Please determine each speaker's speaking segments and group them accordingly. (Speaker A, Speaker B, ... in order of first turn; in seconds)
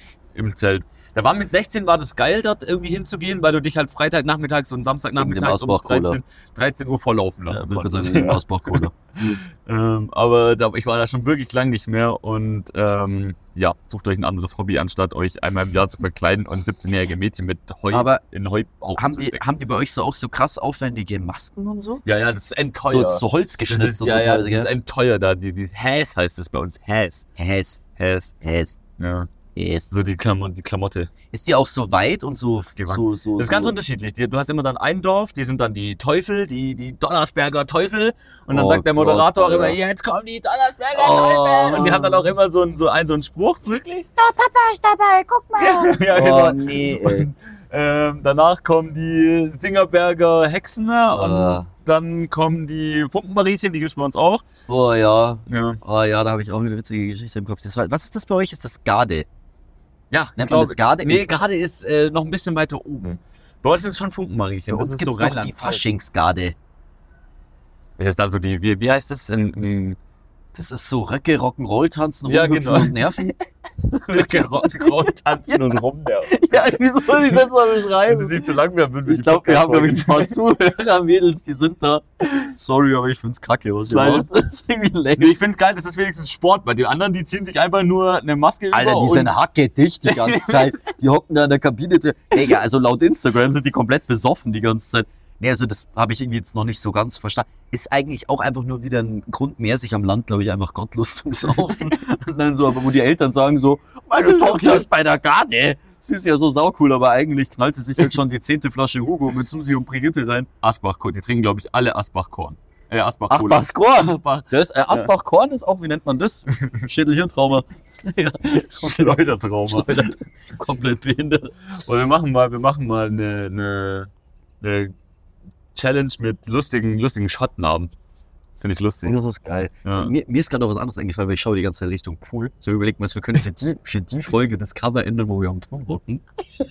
Speaker A: 0.3-19.4, 22.0-27.3, 28.0-28.3, 29.0-29.3, 29.9-31.1, 32.7-44.1, 45.6-54.5, 55.5-55.8, 60.1-65.8, 68.0-70.0, 72.2-73.3, 73.9-77.4, 78.0-80.3, 83.8-84.3, 85.2-89.3, 90.1-90.7, 104.2-104.8, 110.6-115.1, 116.6-116.8, 118.6-120.1, 121.7-124.9, 125.7-127.9, 128.6-129.2, 129.8-130.1
Speaker B: 5.2-6.2, 7.5-8.9, 17.9-18.2, 18.9-22.0, 22.8-24.7, 27.4-27.9, 28.4-28.8, 29.5-29.9, 31.3-33.8, 38.5-39.8, 41.0-42.3, 46.1-47.3, 51.1-51.7, 54.7-59.3, 60.4-61.2, 64.7-66.5, 70.5-73.3, 74.0-78.5, 79.0-85.3, 88.7-110.5, 113.3-121.5, 129.0-136.2
Speaker C: 41.4-41.8, 44.2-46.0